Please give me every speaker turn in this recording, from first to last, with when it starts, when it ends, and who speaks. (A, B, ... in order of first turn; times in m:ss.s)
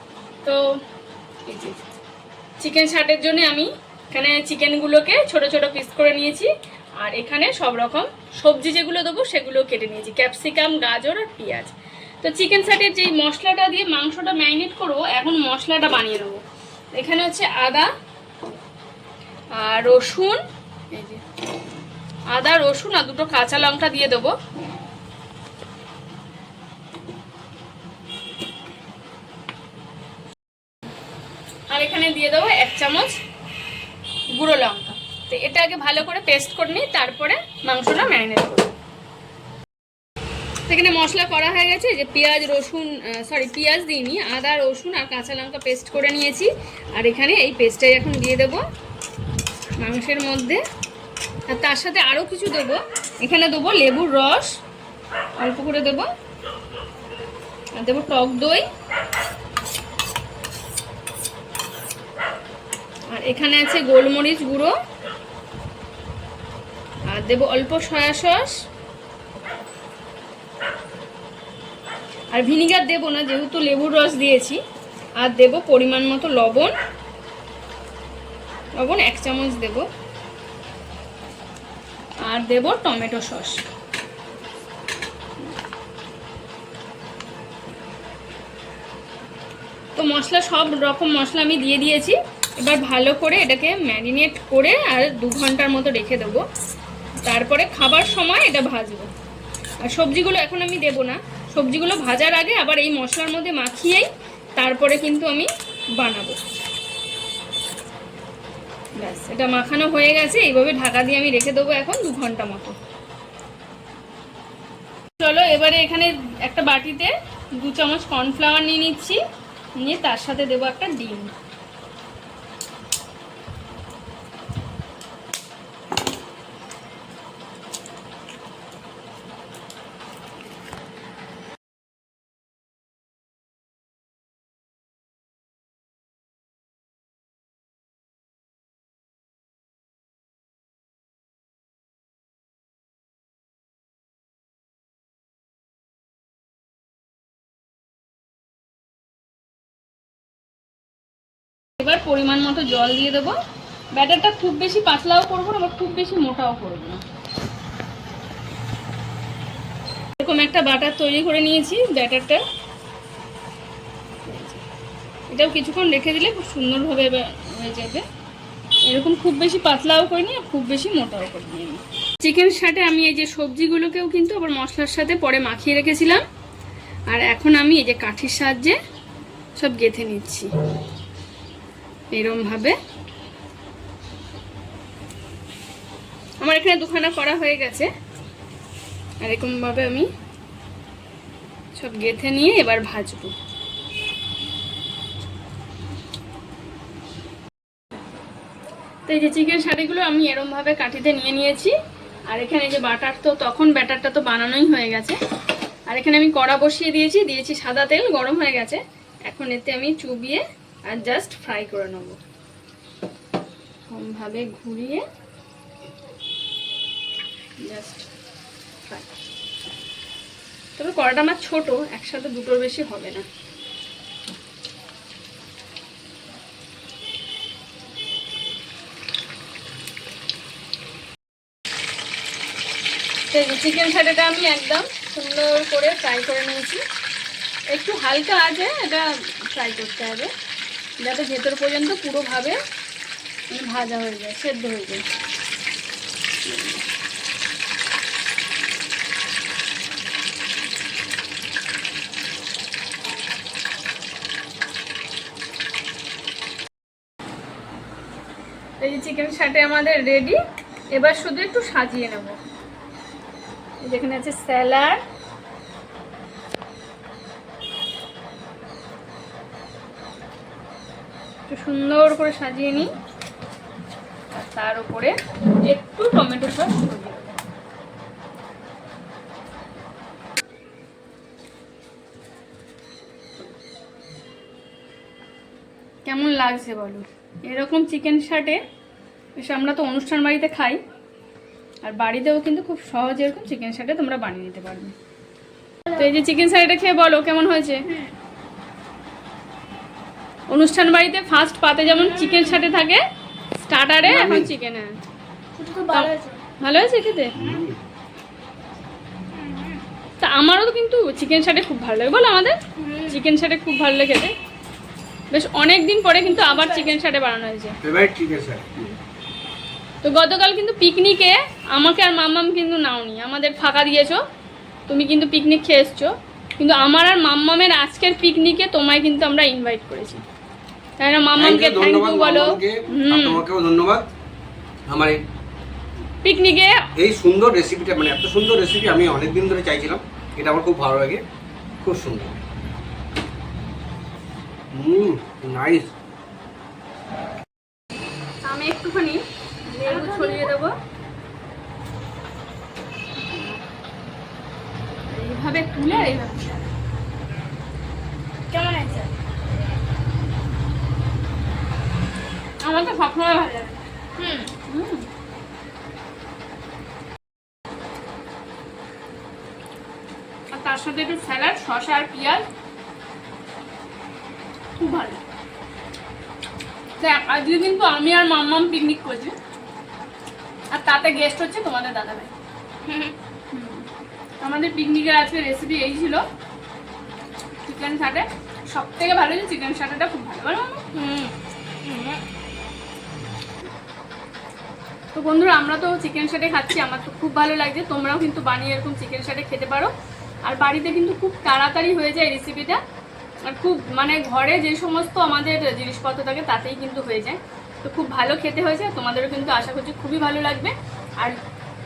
0:01.4-0:01.8 A
0:02.6-0:16.4 A
0:16.9-0:17.9 A
0:19.6-0:20.4 A
0:20.9-0:21.2 A
0:22.3-0:24.3 A
0:31.7-0:33.2 A
0:34.3-0:38.7 A
0:40.6-0:48.6 A
0:49.8-0:50.6 A
0:51.5-0:54.5 A
0:55.4-0:56.1 A
0:57.8-0:58.6 A
1:03.1-1:04.7 A
1:07.1-1:08.5 A
1:12.3-1:14.6 A
1:15.2-1:16.7 A
1:18.8-1:19.9 A
1:22.2-1:23.6 A
1:29.9-1:36.4 A
1:37.2-1:39.1 A
1:39.8-1:46.4 A
1:49.0-1:52.8 A
1:55.2-1:59.2 A
1:59.8-2:01.3 A
2:31.8-2:33.4 A
2:33.9-2:37.0 A
2:40.2-2:42.4 A
2:44.2-2:44.6 A
2:45.3-2:48.0 A
2:48.8-2:56.2 A
2:57.1-2:58.8 A
2:59.6-3:00.5 A
3:02.1-3:02.8 A
3:06.4-3:07.9 A
3:09.2-3:10.1 A
3:11.7-3:13.3 A
3:19.1-3:21.7 A
3:22.3-3:25.2 A
3:25.9-3:32.2 A
3:33.9-3:35.0 A
3:37.6-3:38.1 A
3:40.8-3:43.2 A
3:53.3-3:56.8 A
3:57.7-4:00.3 A
4:01.0-4:02.6 A
4:03.5-4:05.0 A
4:06.4-4:06.8 A
4:18.8-4:20.4 A
4:20.9-4:22.4 A
4:23.8-4:25.0 A
4:31.5-4:32.9 A
4:34.3-4:37.4 A
4:46.0-4:48.6 A
4:49.4-4:50.8 A
4:51.8-4:54.9 A
4:55.9-4:57.9 A
5:00.5-5:03.0 A
5:01.9-5:02.7 B
5:03.6-5:05.0 A
5:04.0-5:04.5 C
5:05.6-5:06.4 B
5:05.9-5:07.3 A
5:07.3-5:07.8 C
5:09.3-5:09.8 B
5:10.2-5:14.3 A
5:12.8-5:13.2 B
5:15.3-5:17.8 A
5:16.3-5:16.9 B
5:17.8-5:18.6 C
5:20.0-5:24.2 A
5:24.9-5:30.2 A
5:31.0-5:33.4 A
5:31.4-5:34.1 C
5:34.9-5:35.2 C
5:36.2-5:36.8 A
5:37.0-5:41.2 C
5:41.8-5:42.4 C
5:44.7-5:45.9 C
5:48.4-5:50.7 A
5:49.8-5:50.5 B
5:55.1-5:56.6 A
5:58.5-5:59.1 B
6:02.6-6:03.8 A
6:04.2-6:04.5 B
6:04.6-6:05.1 A
6:10.5-6:12.4 A
6:14.8-6:15.2 A
6:17.0-6:19.4 A
6:20.7-6:22.3 A
6:22.8-6:23.1 B
6:23.5-6:23.9 A
6:24.4-6:26.2 A
6:27.6-6:31.3 A
6:31.8-6:32.2 B
6:35.1-6:39.9 A
6:40.4-6:42.8 A
6:43.4-6:51.4 A